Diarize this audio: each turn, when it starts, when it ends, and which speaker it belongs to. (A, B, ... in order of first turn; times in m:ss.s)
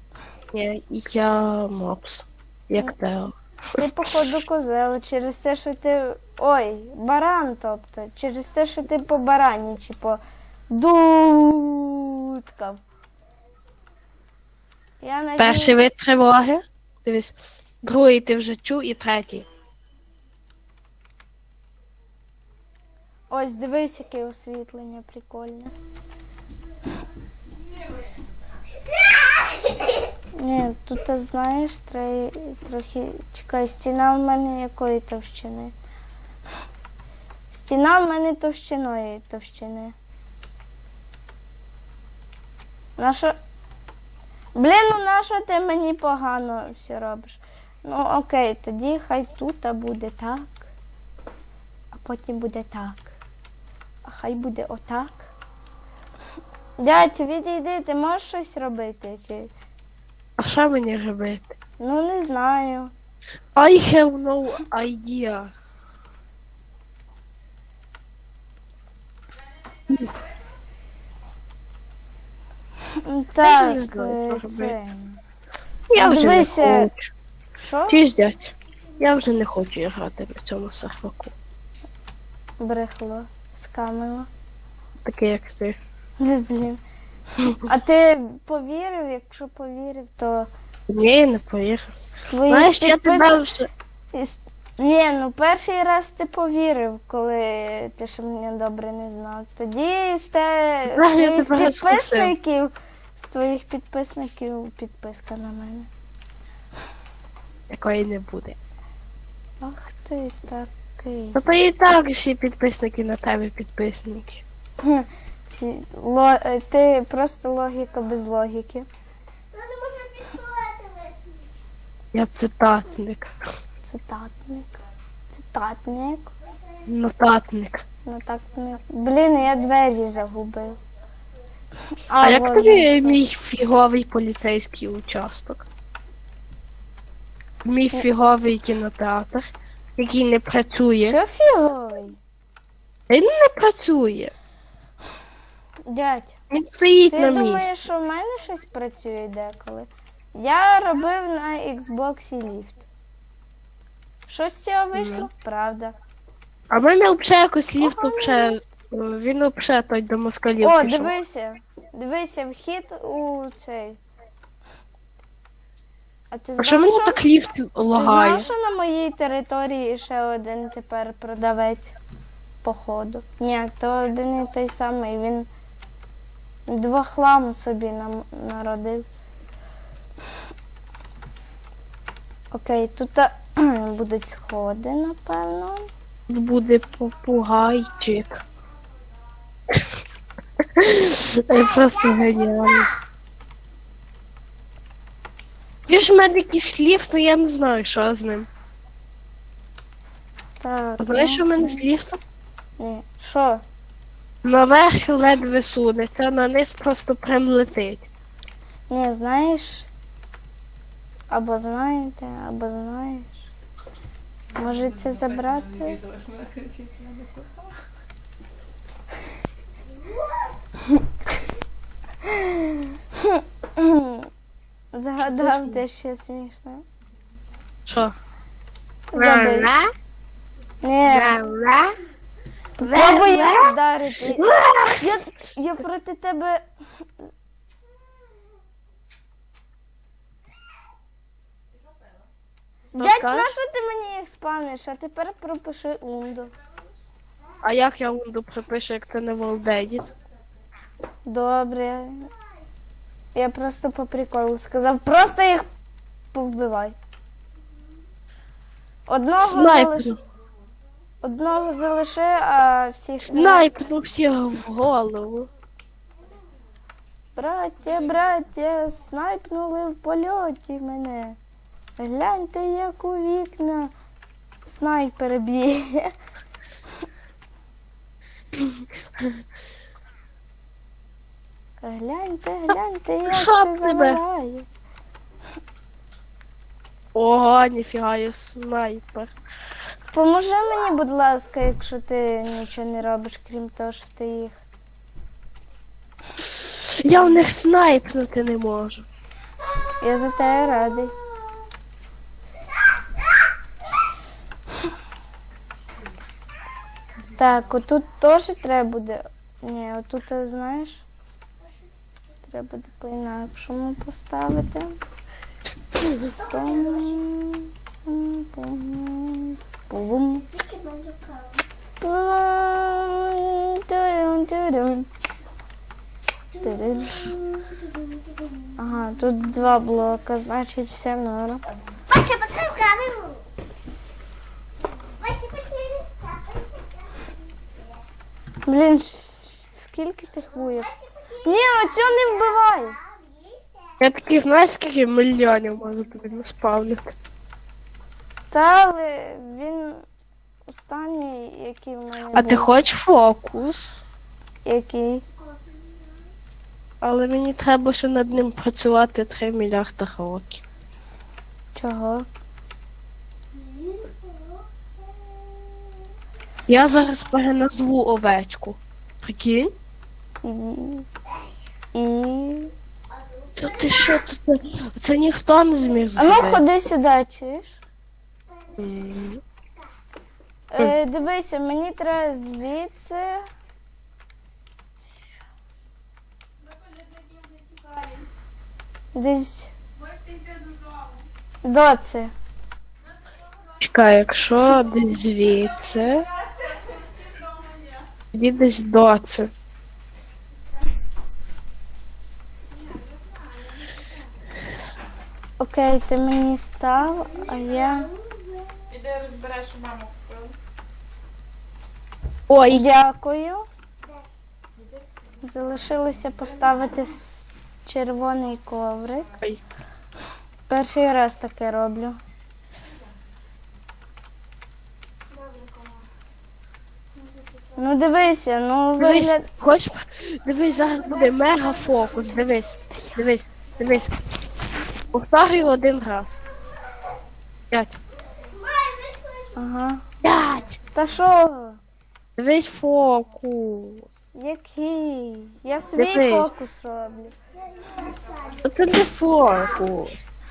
0:00.5-0:03.8 A
0:03.8-0:12.8 B
0:15.0-0:15.8 B
0:15.4-0:19.4 A
0:23.3-0:25.7 B
0:30.4-0:35.7 B
0:37.5-0:39.9 B
0:43.0-0:43.3 B
0:44.6-0:50.6 B
0:51.9-0:53.1 B
0:54.0-0:55.3 B
0:56.8-0:59.5 B
1:00.4-1:01.5 A
1:01.8-1:02.9 B
1:03.6-1:05.5 A
1:13.0-1:15.2 B
1:13.4-1:14.9 A
1:15.9-1:17.1 A
1:16.0-1:16.9 B
1:17.6-1:18.0 B
1:17.9-1:21.3 A
1:22.6-1:24.3 B
1:25.0-1:25.8 A
1:26.2-1:26.8 B
1:27.6-1:30.5 B
1:30.9-1:31.9 A
1:32.2-1:33.4 B
1:32.5-1:33.7 A
1:34.1-1:45.9 B
1:40.9-1:42.3 A
1:47.7-1:48.6 A
1:49.6-1:51.4 B
1:51.3-1:54.4 A
1:54.8-1:58.9 B
1:59.5-2:01.5 C
2:02.1-2:03.3 A
2:03.8-2:04.8 B
2:05.3-2:06.3 B
2:06.9-2:07.8 A
2:08.0-2:10.8 B
2:12.1-2:13.2 B
2:12.2-2:15.6 A
2:17.6-2:21.2 A
2:21.0-2:22.2 B
2:23.1-2:24.3 A
2:25.8-2:26.4 B
2:26.5-2:27.7 A
2:27.1-2:32.8 B
2:34.3-2:36.0 B
2:34.9-2:35.3 A
2:36.7-2:41.1 A
2:37.8-2:38.2 B
2:40.6-2:44.0 B
2:46.3-2:47.2 B
2:46.6-2:48.5 A
2:47.9-2:52.0 B
2:52.6-2:55.5 B
2:56.7-2:59.0 B
3:02.5-3:05.9 B
3:06.3-3:08.4 A
3:10.7-3:12.9 A
3:15.9-3:18.5 A
3:20.6-3:21.8 B
3:21.0-3:22.2 A
3:22.8-3:23.6 B
3:24.4-3:28.1 A
3:28.9-3:29.9 B
3:31.3-3:33.4 B
3:34.6-3:36.0 B
3:34.6-3:37.7 D
3:42.2-3:44.3 B
3:44.9-3:46.8 B
3:45.2-3:45.8 A
3:47.8-3:48.1 A
3:49.1-3:49.7 B
3:49.1-3:49.9 A
3:50.8-3:51.4 B
3:51.0-3:51.9 A
3:52.8-3:56.6 B
3:52.8-3:53.7 A
3:54.3-3:55.1 A
4:02.9-4:06.5 B
4:03.0-4:03.6 A
4:07.6-4:10.1 A
4:11.3-4:12.3 B
4:13.3-4:15.7 B
4:16.3-4:17.0 B
4:19.1-4:20.1 B
4:19.4-4:20.2 A
4:21.2-4:23.7 B
4:23.2-4:25.5 A
4:27.4-4:31.4 B
4:32.0-4:33.9 B
4:34.6-4:36.1 B
4:38.6-4:39.4 A
4:41.8-4:44.7 B
4:42.7-4:44.2 A
4:47.1-4:49.3 A
4:50.1-4:54.6 B
4:56.4-4:59.0 A
5:00.0-5:01.1 B
5:07.4-5:11.0 B
5:12.5-5:15.0 B
5:16.2-5:17.2 C
5:16.5-5:20.5 B
5:20.5-5:21.6 C
5:22.0-5:25.1 B
5:26.5-5:28.7 C
5:26.6-5:27.3 B
5:28.8-5:31.6 B
5:32.1-5:33.4 C
5:35.2-5:37.3 C
5:38.6-5:40.9 B
5:40.6-5:43.9 C
5:41.4-5:43.0 B
5:44.0-5:47.1 A
5:48.5-5:50.0 B
5:50.7-5:52.7 B
5:52.3-5:54.0 A
5:54.6-5:55.2 B
5:55.5-5:56.1 C
5:57.0-6:00.6 A
6:01.7-6:02.3 B
6:03.5-6:05.7 C
6:06.7-6:09.7 A
6:10.4-6:11.1 B
6:11.9-6:12.7 B
6:13.2-6:14.1 C
6:13.6-6:16.6 A
6:16.2-6:17.8 B
6:18.5-6:19.1 C
6:18.8-6:19.4 A
6:20.7-6:23.4 B
6:29.1-6:29.7 B
6:30.1-6:31.1 D
6:31.6-6:32.3 B
6:33.8-6:36.3 A
6:36.8-6:38.0 D
6:38.3-6:39.5 A
6:45.6-6:48.1 B
6:47.8-6:48.7 C
6:48.9-6:50.5 D
6:52.5-6:52.8 A
6:52.7-6:53.6 B
6:55.4-6:59.3 B
7:00.7-7:02.2 B
7:05.3-7:06.0 C
7:07.7-7:09.4 B
7:09.0-7:14.1 A
7:11.4-7:12.4 C
7:15.1-7:16.4 A
7:17.7-7:18.0 A
7:18.5-7:19.6 C
7:19.5-7:20.0 B
7:20.2-7:20.8 A
7:20.9-7:21.8 B
7:22.4-7:24.3 A
7:24.3-7:27.3 B
7:26.0-7:26.5 A
7:27.7-7:28.7 C
7:28.6-7:30.3 A